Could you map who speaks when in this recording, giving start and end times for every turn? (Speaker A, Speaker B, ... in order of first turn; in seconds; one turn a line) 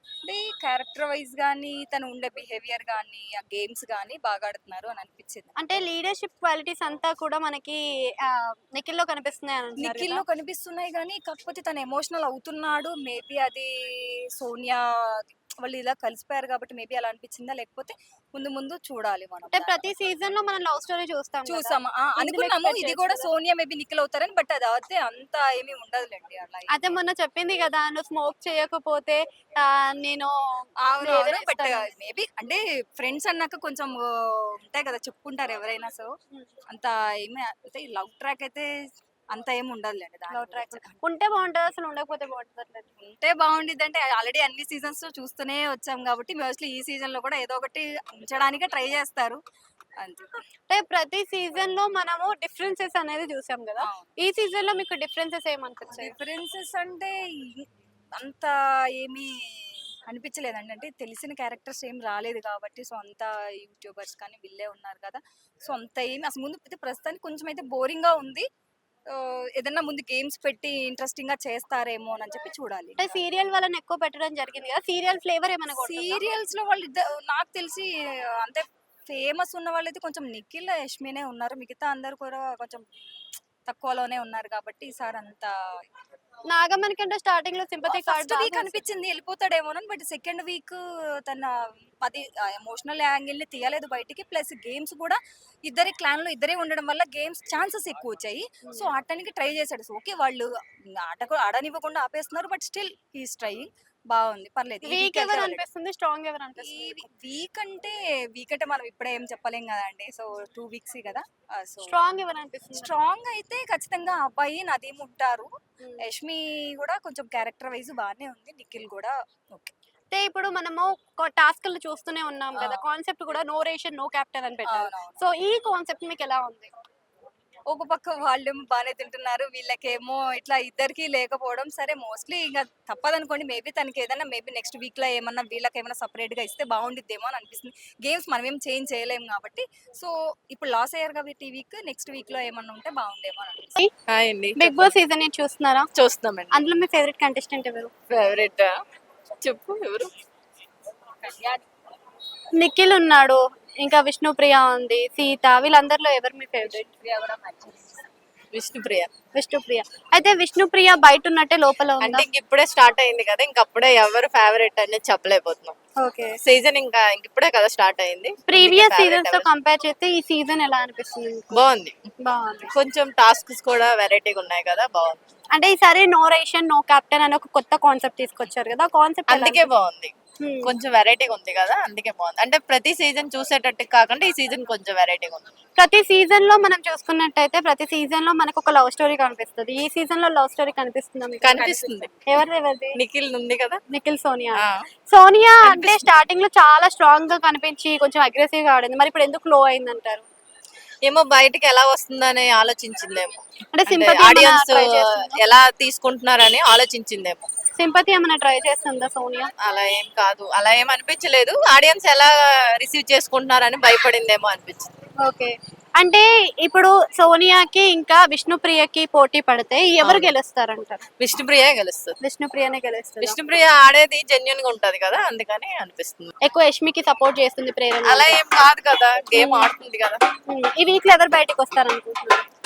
Speaker A: 0.2-5.5
Speaker B: 5.6-10.2
Speaker A: 9.8-13.7
Speaker A: 14.4-14.8
Speaker A: 15.6-19.9
Speaker B: 19.5-23.3
Speaker A: 21.5-26.9
Speaker B: 26.7-30.3
Speaker A: 30.9-34.0
Speaker B: 31.0-31.9
Speaker A: 34.6-36.1
Speaker A: 36.7-38.6
Speaker A: 39.3-41.0
Speaker B: 40.3-42.9
Speaker A: 43.0-49.4
Speaker A: 50.0-50.3
Speaker B: 50.7-56.1
Speaker A: 53.8-54.1
Speaker A: 55.9-57.6
Speaker A: 58.2-59.3
Speaker A: 60.1-68.5
Speaker A: 69.1-73.2
Speaker B: 73.0-76.2
Speaker A: 75.8-77.9
Speaker A: 78.4-82.9
Speaker A: 83.7-85.5
Speaker B: 86.5-88.8
Speaker A: 87.9-91.5
Speaker A: 92.0-100.5
Speaker A: 101.0-105.6
Speaker B: 104.8-107.1
Speaker A: 106.6-112.0
Speaker B: 111.8-112.9
Speaker A: 112.7-115.5
Speaker A: 116.0-119.7
Speaker B: 120.1-126.7
Speaker A: 122.6-122.8
Speaker A: 124.7-125.2
Speaker A: 127.7-143.7
Speaker C: 144.1-144.9
Speaker B: 144.6-145.9
Speaker C: 145.9-146.6
Speaker B: 146.5-147.9
Speaker C: 148.1-148.7
Speaker C: 149.4-150.1
Speaker A: 151.2-151.6
Speaker B: 152.6-156.9
Speaker A: 156.9-157.9
Speaker C: 158.5-159.1
Speaker B: 159.3-162.3
Speaker C: 162.0-165.8
Speaker B: 166.0-166.4
Speaker C: 166.4-169.5
Speaker B: 168.5-171.6
Speaker C: 171.5-172.0
Speaker B: 172.2-172.7
Speaker C: 172.7-175.2
Speaker B: 175.5-179.7
Speaker C: 179.3-185.5
Speaker B: 180.4-180.7
Speaker B: 185.8-193.0
Speaker C: 191.4-192.1
Speaker A: 191.6-192.1
Speaker C: 192.9-193.8
Speaker B: 193.9-200.3
Speaker C: 194.6-194.8
Speaker C: 195.6-196.1
Speaker C: 201.0-207.5
Speaker B: 203.7-205.4
Speaker B: 207.8-209.5
Speaker C: 209.6-214.9
Speaker B: 215.2-221.0
Speaker C: 220.0-220.3
Speaker C: 221.2-222.2
Speaker B: 222.2-223.4
Speaker C: 223.2-226.3
Speaker B: 226.4-228.4
Speaker C: 228.0-230.2
Speaker B: 229.3-229.7
Speaker B: 230.5-232.4